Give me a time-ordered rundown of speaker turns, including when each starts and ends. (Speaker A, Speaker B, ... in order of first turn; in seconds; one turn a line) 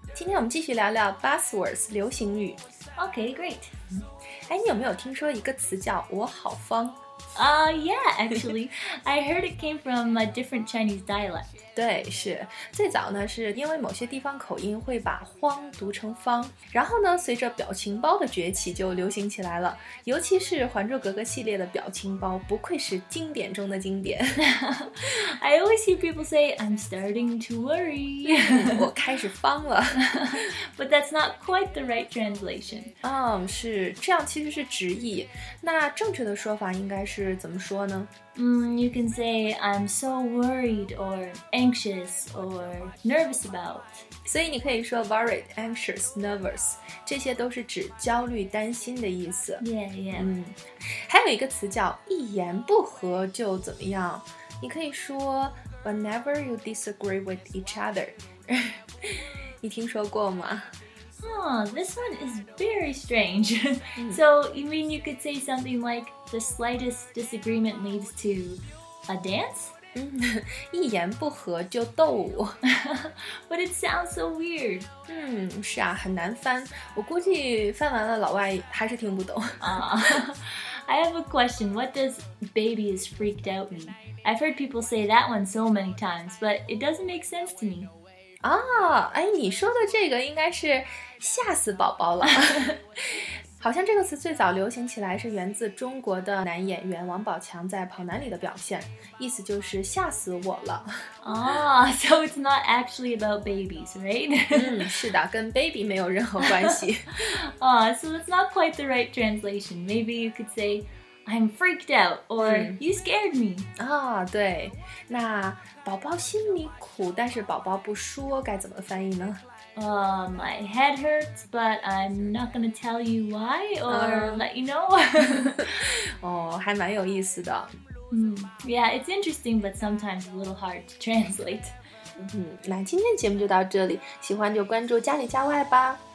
Speaker A: 0.1-2.6
Speaker B: 3.0-3.8
Speaker A: 3.9-7.0
Speaker B: 7.3-11.6
Speaker A: 11.7-24.4
Speaker B: 24.4-28.9
Speaker A: 28.2-30.5
Speaker B: 29.9-32.9
Speaker A: 33.0-38.1
Speaker B: 38.3-44.0
Speaker A: 44.2-60.7
Speaker B: 49.6-50.3
Speaker B: 61.2-69.8
Speaker A: 64.0-64.2
Speaker A: 69.9-72.6
Speaker B: 72.6-74.9
Speaker A: 75.1-80.2
Speaker B: 79.6-87.9
Speaker A: 88.4-101.1
Speaker B: 101.2-104.8
Speaker A: 104.5-107.3
Speaker B: 106.4-113.7
Speaker A: 112.4-112.8
Speaker A: 113.8-119.4
Speaker B: 119.8-125.9
Speaker A: 123.9-124.5
Speaker A: 125.6-127.8
Speaker B: 128.1-131.8
Speaker A: 132.2-136.0